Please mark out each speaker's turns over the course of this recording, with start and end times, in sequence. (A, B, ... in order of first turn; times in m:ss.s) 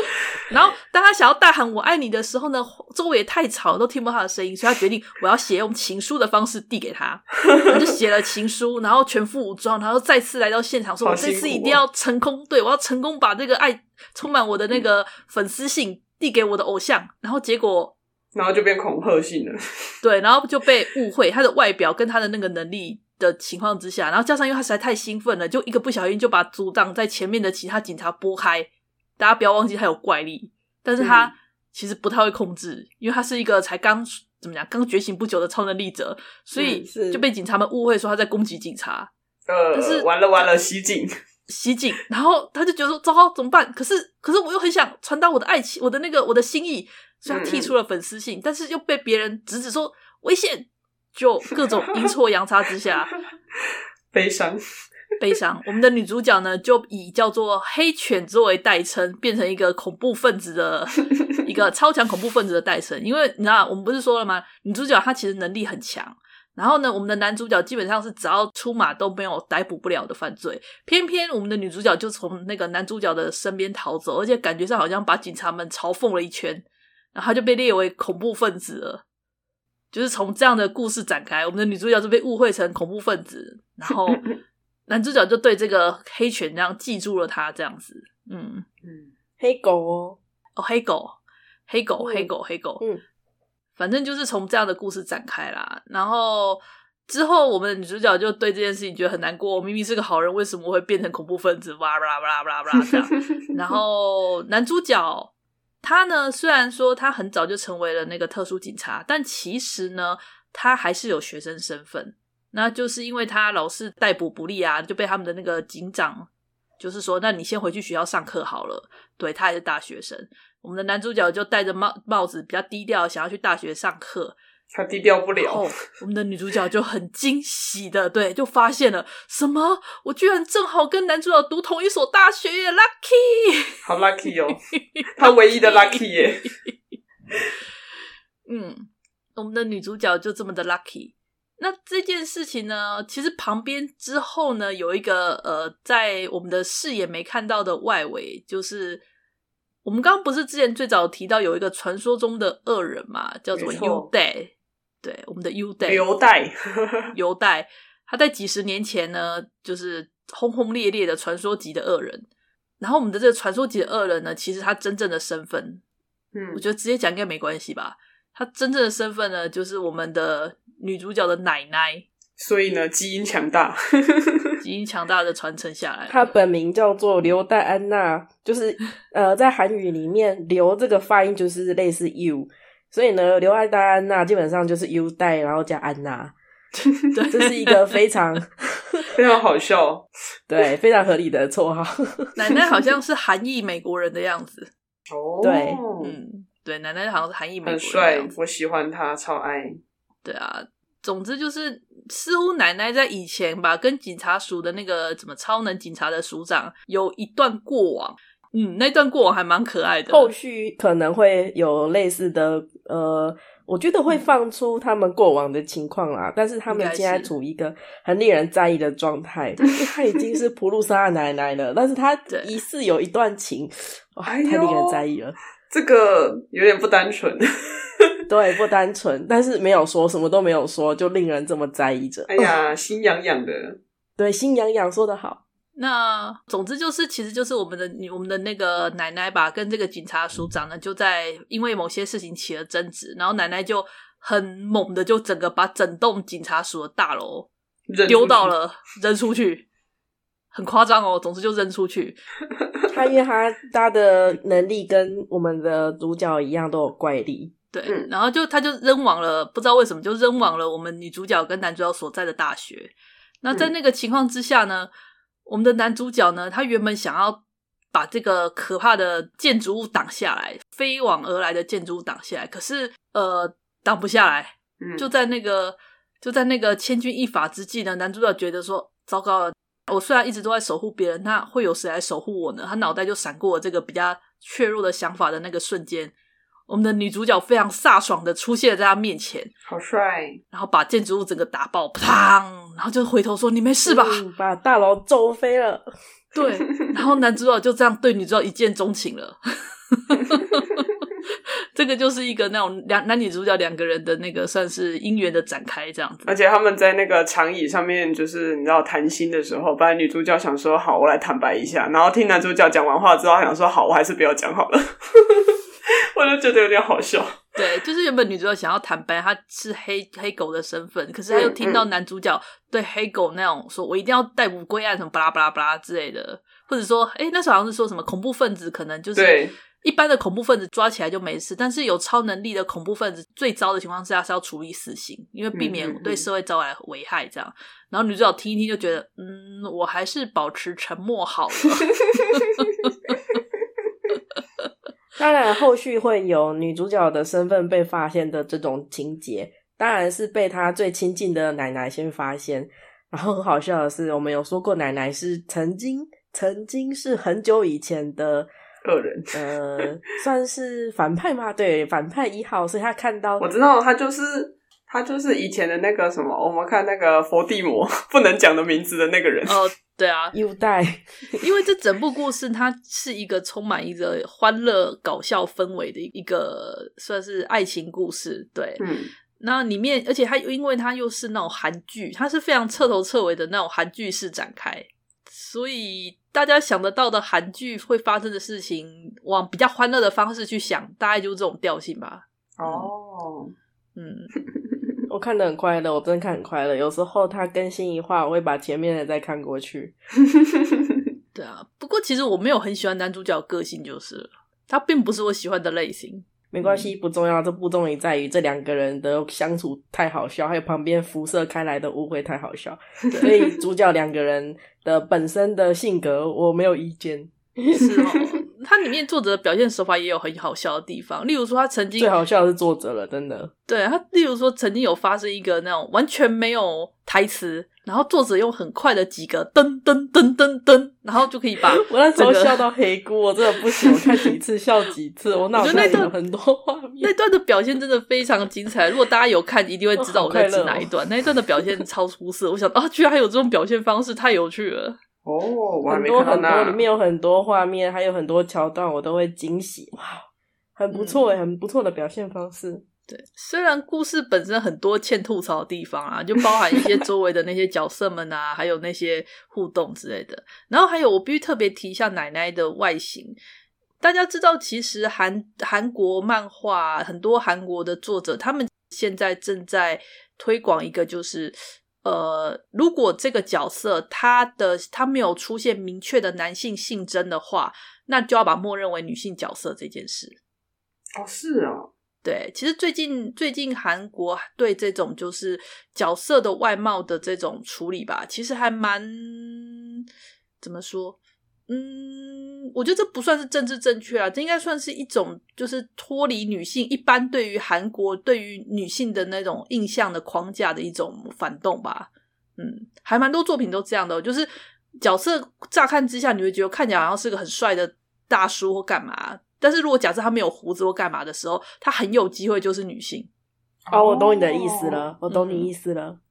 0:00.5-0:18.0 A
0:11.0-0:11.8 B
0:18.3-0:19.6 B
0:20.0-0:39.1 A
0:31.0-0:31.3 B
0:36.6-0:36.8 B
0:36.8-0:37.2 C
0:39.5-0:41.1 B
0:39.7-0:40.5 A
0:41.5-0:53.2 A
0:47.3-0:47.7 B
0:54.1-0:54.6 B
0:55.2-1:19.0 A
1:19.9-1:24.3 A
1:24.9-1:28.6 A
1:28.8-1:29.1 B
1:29.4-1:30.2 C
1:30.6-1:32.8 A
1:32.0-1:33.0 C
1:33.8-1:56.3 A
1:56.8-2:04.4 A
2:04.7-2:05.7 B
2:05.3-2:13.8 A
2:13.8-2:14.6 B
2:14.7-2:16.0 A
2:15.1-2:16.5 B
2:18.4-2:29.0 A
2:29.8-2:36.0 A
2:33.5-2:34.1 B
2:35.8-2:37.0 B
2:37.1-2:42.3 A
2:42.8-2:45.8 A
2:46.3-2:46.6 B
2:46.5-2:52.0 A
2:52.4-2:54.5 B
2:54.6-2:56.3 A
2:56.1-3:06.4 C
3:06.8-3:08.0 A
3:07.3-3:09.1 C
3:09.1-3:10.1 B
3:10.5-3:12.3 C
3:12.4-3:14.7 A
3:15.1-3:16.2 B
3:15.4-3:15.8 C
3:16.0-3:18.3 A
3:17.6-3:19.8 B
3:20.2-3:30.3 A
3:30.1-3:45.4 C
3:36.7-3:37.3 A
3:44.2-3:45.0 B
3:45.7-3:48.1 B
3:48.3-3:52.4 C
3:52.3-3:53.8 B
3:54.2-3:55.4 C
3:55.8-4:07.5 A
4:07.9-4:08.5 B
4:08.0-4:09.6 A
4:10.5-4:12.2 A
4:12.9-4:17.5 C
4:17.7-4:24.9 A
4:17.8-4:18.1 B
4:25.4-4:27.4 A
4:27.9-4:46.1 A
4:34.8-4:35.1 B
4:46.7-4:49.5 A
4:49.7-4:50.4 B
4:50.5-4:54.2 A
4:53.8-4:55.9 C
4:56.3-5:00.9 A
5:01.7-5:06.3 A
5:06.2-5:15.6 B
5:16.1-5:17.6 B
5:17.6-5:42.9 A
5:21.3-5:21.8 B
5:29.1-5:29.6 B
5:35.5-5:36.3 B
5:45.2-5:58.5 C
5:58.8-5:59.4 B
5:59.3-6:03.4 C
6:03.4-6:09.7 B
6:09.4-6:10.4 A
6:10.3-6:11.4 C
6:11.4-6:18.8 A
6:18.8-6:19.1 B
6:19.4-6:32.9 A
6:32.6-6:33.5 B
6:34.0-6:34.3 A
6:35.1-6:40.0 C
6:41.3-6:46.9 A
6:46.5-6:58.1 C
6:57.7-7:02.1 A
7:02.0-7:03.5 C
7:03.7-7:12.6 A
7:11.7-7:17.1 C
7:13.8-7:14.3 A
7:15.5-7:16.1 A
7:17.0-7:25.0 A
7:20.0-7:20.9 C
7:25.2-7:26.8 B
7:25.9-7:30.2 C
7:30.8-7:32.8 C
7:30.9-7:31.3 A
7:33.1-7:43.4 A
7:44.0-8:00.4 A
8:01.2-8:01.9 B
8:02.2-8:10.0 A
8:10.6-8:24.5 A
8:25.0-8:33.3 A
8:33.8-8:35.1 B
8:33.9-8:36.2 C
8:35.3-8:35.7 A